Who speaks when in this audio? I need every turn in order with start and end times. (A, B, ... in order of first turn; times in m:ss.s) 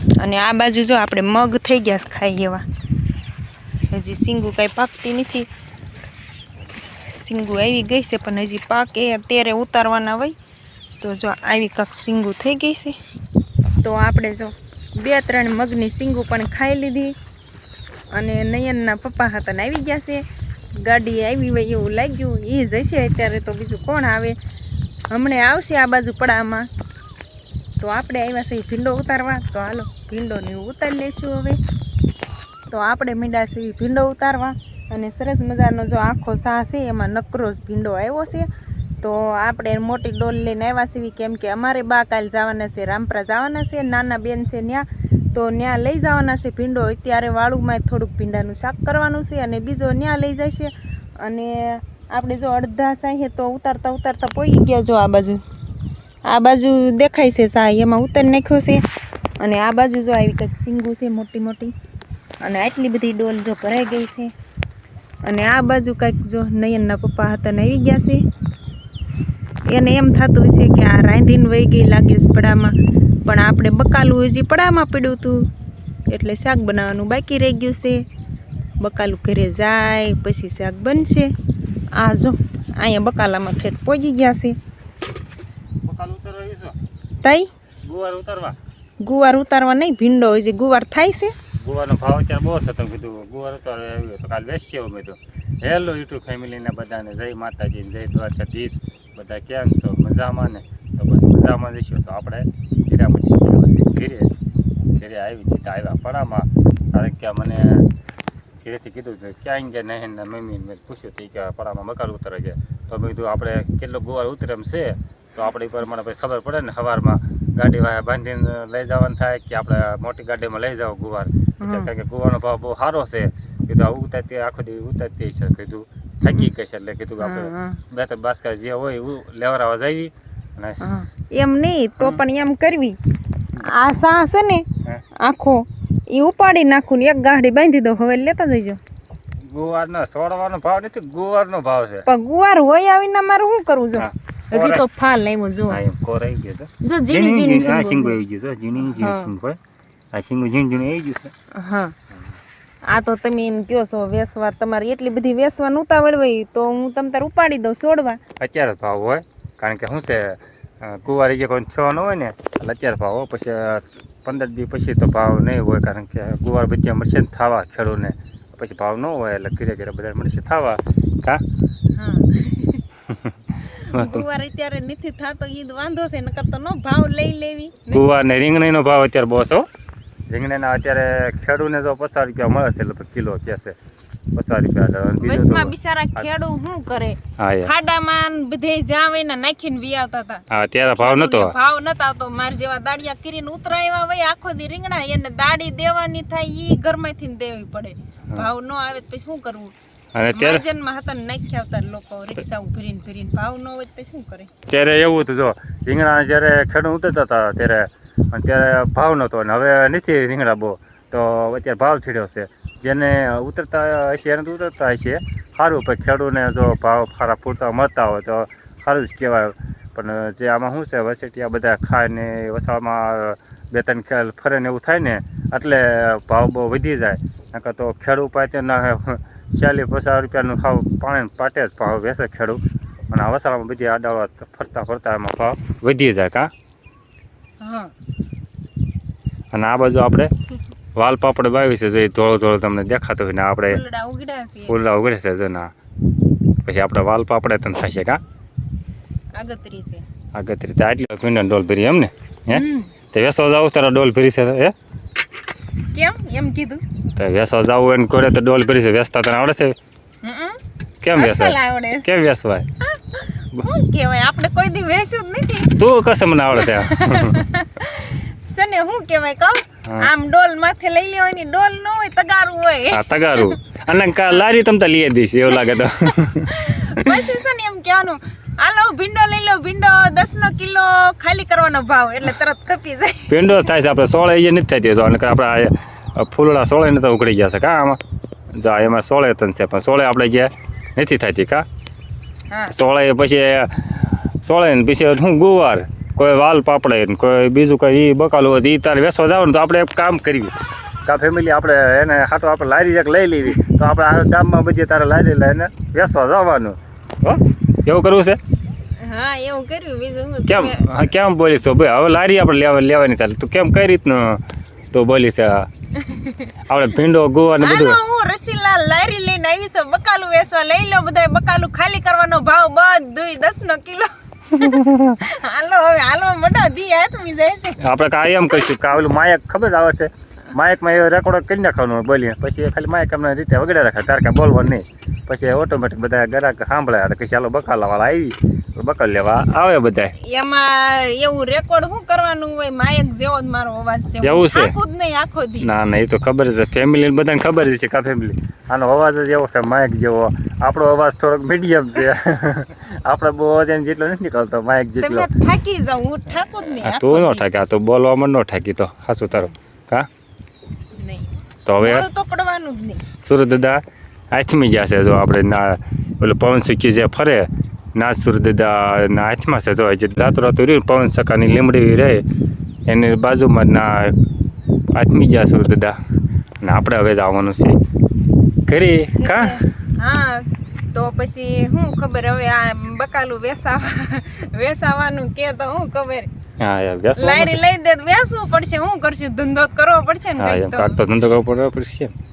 0:00.2-0:02.6 A
0:03.9-0:05.5 A
0:07.0-0:10.4 A
0:11.0-0:13.0 A
0:13.8-0:17.2 A
0:18.1-0:20.2 A
0:20.8-0:24.4 A
0:25.1-0:26.7 A
0:27.8-0:31.6 A
0:32.7-0:38.5 A
0:39.0-0:55.4 A
0:56.3-0:58.8 A
0:59.4-1:01.7 A
1:02.4-1:04.3 A
1:05.3-1:08.2 A
1:09.7-1:12.7 A
1:13.2-1:15.4 A
1:16.1-1:18.0 A
1:18.8-1:21.3 A
1:22.0-1:24.6 A
1:25.8-1:26.8 B
1:27.2-1:27.5 A
1:27.8-1:28.6 B
1:29.0-1:31.4 A
1:31.6-1:44.3 B
1:44.9-1:47.9 B
1:48.6-2:10.8 B
2:01.6-2:01.9 A
2:07.2-2:07.8 A
2:10.8-2:13.0 A
2:13.6-2:14.7 A
2:15.2-2:18.8 A
2:19.5-2:22.1 B
2:22.1-2:25.8 A
2:24.0-2:24.8 B
2:25.7-2:29.6 B
2:26.8-2:28.2 A
2:28.8-2:29.3 A
2:30.1-2:31.3 B
2:31.5-2:31.9 A
2:32.9-2:38.2 A
2:38.4-2:51.4 B
2:52.0-2:52.8 A
2:53.1-2:54.3 B
2:53.6-2:58.0 A
2:57.9-2:59.7 B
3:00.3-3:03.8 B
3:04.4-3:06.2 B
3:05.2-3:10.4 A
3:07.4-3:07.7 B
3:10.5-3:11.6 B
3:11.0-3:19.7 A
3:20.2-3:20.6 B
3:20.3-3:24.5 A
3:24.7-3:52.6 B
3:53.1-3:56.5 B
3:57.6-3:57.9 A
3:59.5-4:00.3 B
4:01.0-4:03.8 B
4:03.7-4:04.8 A
4:04.7-4:05.7 B
4:06.6-4:08.2 B
4:09.4-4:10.0 A
4:10.3-4:14.7 B
4:12.5-4:12.9 A
4:15.9-4:16.8 A
4:17.2-4:19.8 B
4:20.2-4:20.6 A
4:21.0-4:22.7 B
4:21.2-4:22.1 A
4:22.8-4:25.8 A
4:25.8-4:27.4 B
4:26.6-4:33.6 A
4:29.8-4:30.1 B
4:32.9-4:37.3 B
4:35.5-4:43.6 A
4:43.3-4:48.0 B
4:48.6-4:51.7 B
4:52.7-5:00.6 B
5:01.1-5:08.4 B
5:09.0-5:10.8 A
5:10.5-5:14.4 B
5:14.9-5:15.7 B
5:16.0-5:16.5 A
5:16.7-5:18.0 B
5:17.6-5:27.8 A
5:24.6-5:25.2 B
5:27.8-5:40.1 B
5:40.2-5:45.7 A
5:44.2-5:44.7 B
5:45.6-5:55.3 B
5:55.0-5:57.4 A
5:56.8-6:00.1 B
6:01.0-6:03.0 A
6:01.7-6:02.1 B
6:03.2-6:03.8 B
6:04.3-6:12.2 B
6:12.9-6:14.2 B
6:14.9-6:16.0 B
6:16.6-6:17.8 B
6:18.7-6:19.6 B
6:19.2-6:26.3 A
6:26.6-6:27.6 B
6:27.2-6:31.0 A
6:30.4-6:32.1 B